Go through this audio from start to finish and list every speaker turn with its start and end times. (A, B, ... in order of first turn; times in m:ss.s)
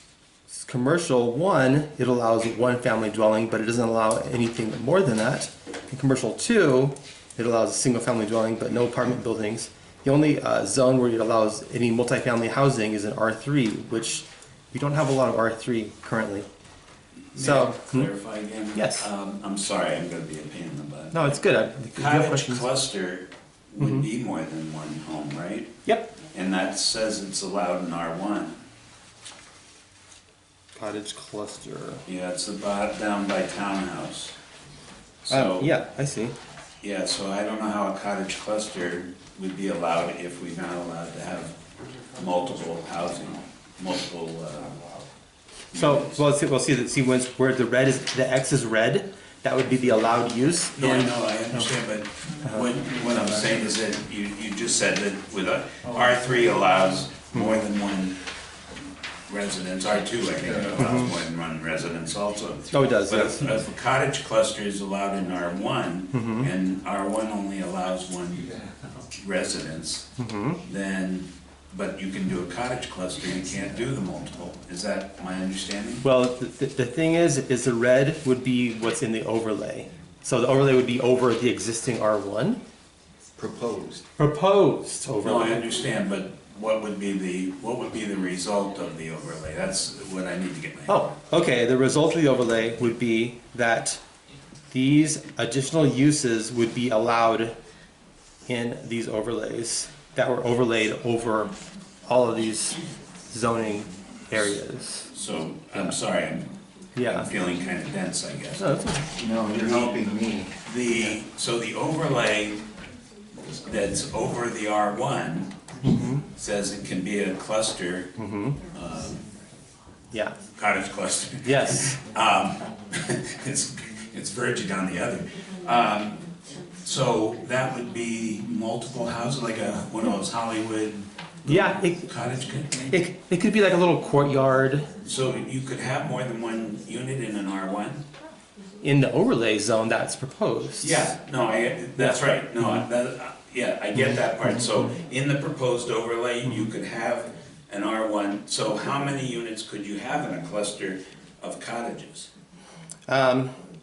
0:00.5-0:16.5 A
0:17.3-0:21.4 B
0:17.4-0:18.1 A
0:18.8-0:19.1 A
0:21.1-0:22.7 A
0:22.0-0:25.8 B
0:23.8-0:24.1 A
0:25.9-0:26.2 A
0:26.3-0:28.6 B
0:30.8-0:32.0 A
0:32.1-0:34.4 B
0:35.2-0:35.7 B
0:35.3-0:36.4 A
0:36.8-0:41.6 B
0:42.1-0:44.8 B
0:45.7-0:46.2 B
0:45.8-0:51.7 A
0:50.8-0:58.2 B
0:52.4-0:52.7 A
0:57.3-0:57.6 A
0:59.3-1:08.6 B
1:00.8-1:01.1 A
1:02.7-1:03.5 A
1:06.1-1:06.5 A
1:09.1-1:10.1 B
1:10.2-1:10.6 A
1:10.7-1:16.0 B
1:16.0-1:22.6 A
1:23.4-1:24.0 C
1:24.2-1:25.6 A
1:25.2-1:31.1 B
1:30.9-1:34.0 A
1:34.7-1:37.6 A
1:38.5-1:41.5 A
1:42.1-1:45.1 A
1:45.1-1:46.5 B
1:47.0-1:47.3 A
1:47.1-1:48.7 B
1:48.6-1:49.1 A
1:49.2-1:50.6 C
1:49.4-1:52.6 B
1:53.4-1:55.6 B
1:55.8-1:56.3 A
1:56.3-1:58.1 B
1:58.2-1:58.6 A
1:58.7-1:59.2 B
2:00.1-2:00.4 A
2:00.6-2:06.2 B
2:01.4-2:02.0 A
2:06.8-2:13.0 B
2:11.5-2:12.1 A
2:12.9-2:14.9 A
2:15.0-2:18.0 B
2:18.8-2:21.1 A
2:20.8-2:32.3 B
2:22.0-2:22.8 A
2:24.0-2:24.6 A
2:33.1-2:33.5 A